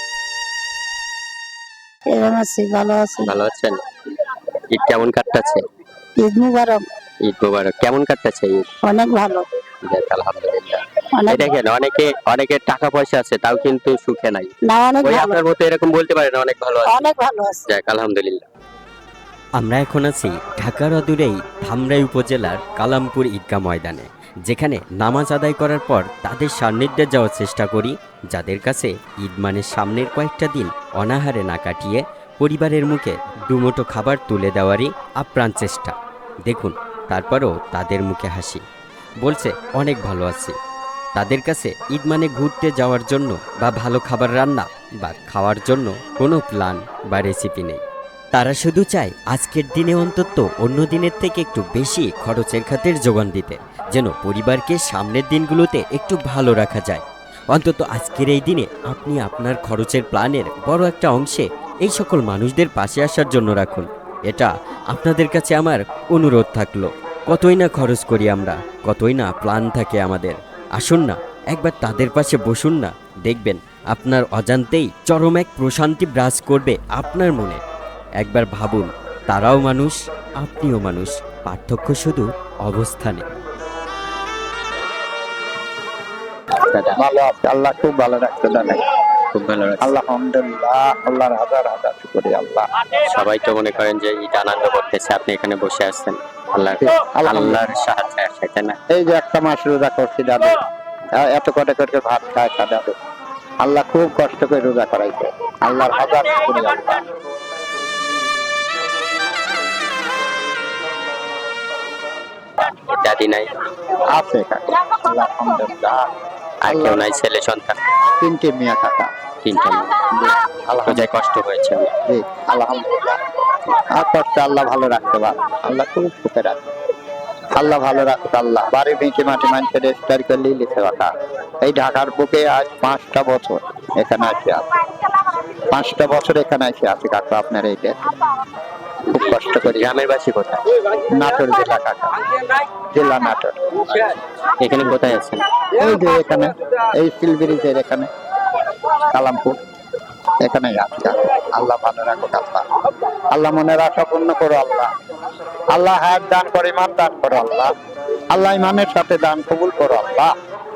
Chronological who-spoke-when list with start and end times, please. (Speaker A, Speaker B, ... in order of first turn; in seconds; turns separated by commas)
Speaker A: 2.1-3.3, Speaker B: 3.2-3.8, Speaker B: 4.7-5.6, Speaker A: 6.2-6.8, Speaker B: 7.2-8.7, Speaker A: 8.9-9.4, Speaker B: 9.8-14.5, Speaker A: 11.1-11.5, Speaker A: 14.7-15.4, Speaker B: 15.0-17.1, Speaker A: 16.9-17.6, Speaker B: 17.6-18.4, Speaker C: 19.6-38.6, Speaker C: 39.2-40.5, Speaker C: 41.1-47.8, Speaker C: 48.3-77.6, Speaker C: 78.2-83.2, Speaker B: 86.6-87.0, Speaker D: 86.9-88.8, Speaker B: 89.3-89.9, Speaker D: 89.8-92.7, Speaker B: 93.0-98.8, Speaker D: 96.8-97.7, Speaker D: 98.9-100.6, Speaker D: 101.2-102.9, Speaker D: 103.6-107.0, Speaker B: 112.6-113.5, Speaker D: 114.1-116.0, Speaker B: 116.6-117.8, Speaker D: 116.7-117.0, Speaker D: 118.2-119.1, Speaker B: 119.4-120.2, Speaker D: 120.2-121.1, Speaker B: 120.8-121.9, Speaker D: 122.1-123.2, Speaker D: 123.8-126.6, Speaker D: 127.5-134.7, Speaker D: 135.7-138.0, Speaker D: 139.1-139.9, Speaker B: 139.1-140.6, Speaker D: 141.1-144.2, Speaker B: 144.6-145.4, Speaker D: 144.8-145.2, Speaker D: 145.7-148.1, Speaker D: 149.0-149.6, Speaker D: 150.4-152.7, Speaker D: 153.3-154.9, Speaker D: 155.7-157.7, Speaker D: 158.3-160.3